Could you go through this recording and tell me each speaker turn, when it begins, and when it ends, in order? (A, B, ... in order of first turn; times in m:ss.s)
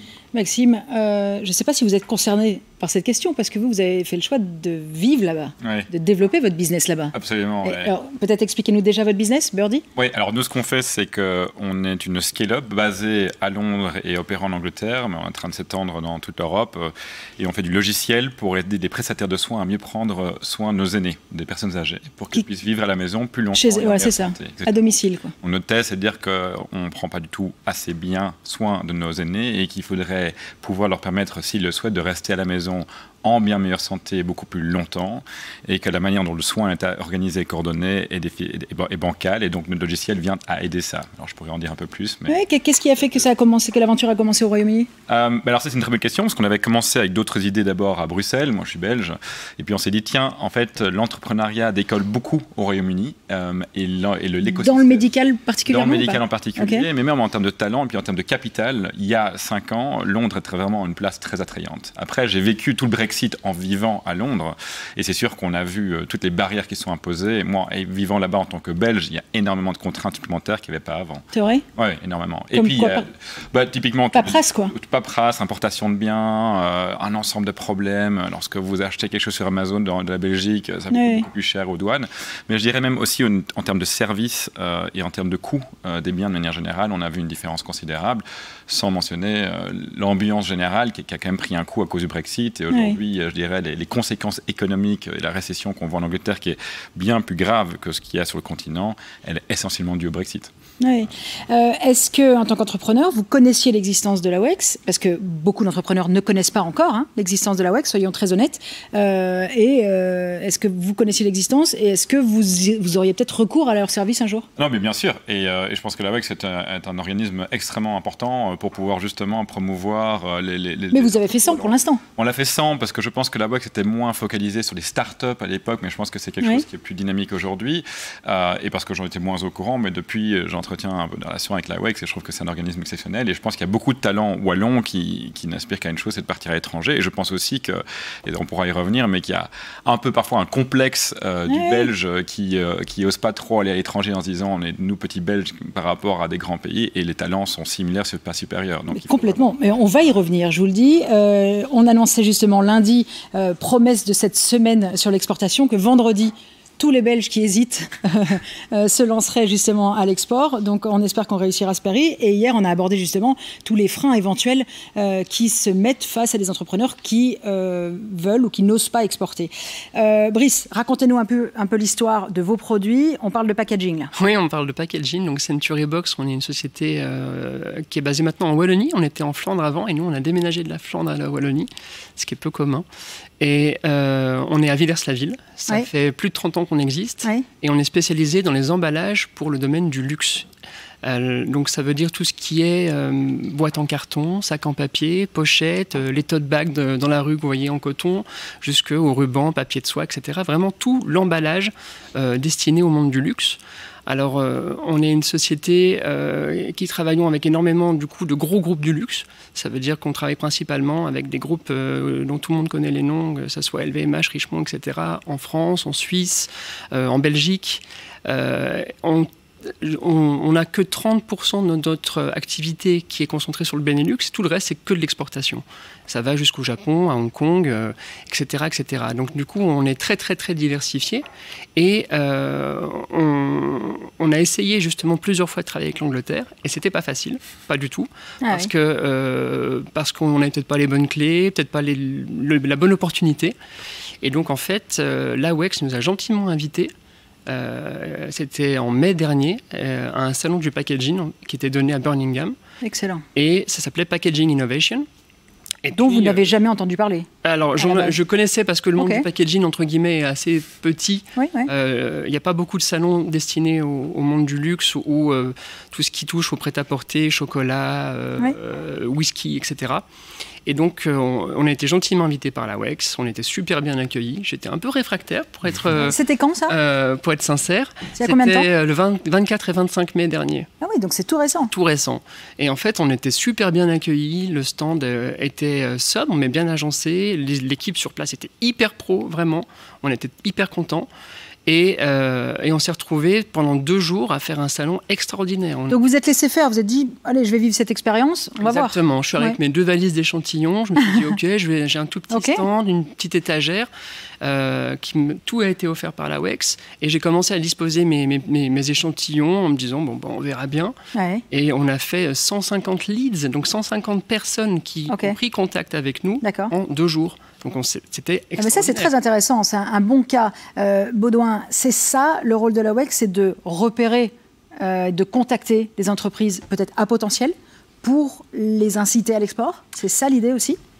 0:00.3-0:09.8 A
0:05.6-0:05.9 B
0:07.1-0:07.9 B
0:10.0-0:24.7 B
0:23.5-0:25.3 A
0:25.4-0:42.4 B
0:42.3-0:44.9 A
0:45.1-0:55.0 B
0:54.4-0:56.9 A
0:55.6-1:11.2 B
1:11.3-1:11.6 A
1:11.8-1:40.5 B
1:12.5-1:13.0 A
1:14.1-1:14.7 A
1:20.9-1:21.3 A
1:32.7-1:33.0 A
1:40.8-1:54.5 A
1:54.6-2:29.4 B
2:00.9-2:02.0 A
2:21.5-2:21.9 A
2:28.9-2:54.1 A
2:54.1-3:02.8 C
3:03.4-3:10.5 C
3:11.0-3:51.2 C
3:51.8-4:03.6 C
3:58.4-3:58.7 A
4:04.2-4:06.9 C
4:07.5-4:12.6 C
4:12.8-4:13.2 A
4:13.3-4:15.0 C
4:15.8-4:16.5 C
4:15.9-4:18.2 A
4:17.4-4:30.0 C
4:19.0-4:19.2 A
4:21.4-4:21.7 A
4:30.6-4:40.7 C
4:36.0-4:36.7 A
4:38.2-4:38.7 A
4:40.8-4:41.7 A
4:41.7-4:51.1 C
4:51.6-4:56.0 C
4:55.9-4:59.6 A
4:58.6-5:03.9 C
5:02.3-5:02.6 A
5:04.4-5:10.9 C
5:11.1-5:11.4 A
5:11.5-5:19.1 C
5:15.1-5:15.4 A
5:16.4-5:16.7 A
5:18.6-5:30.8 A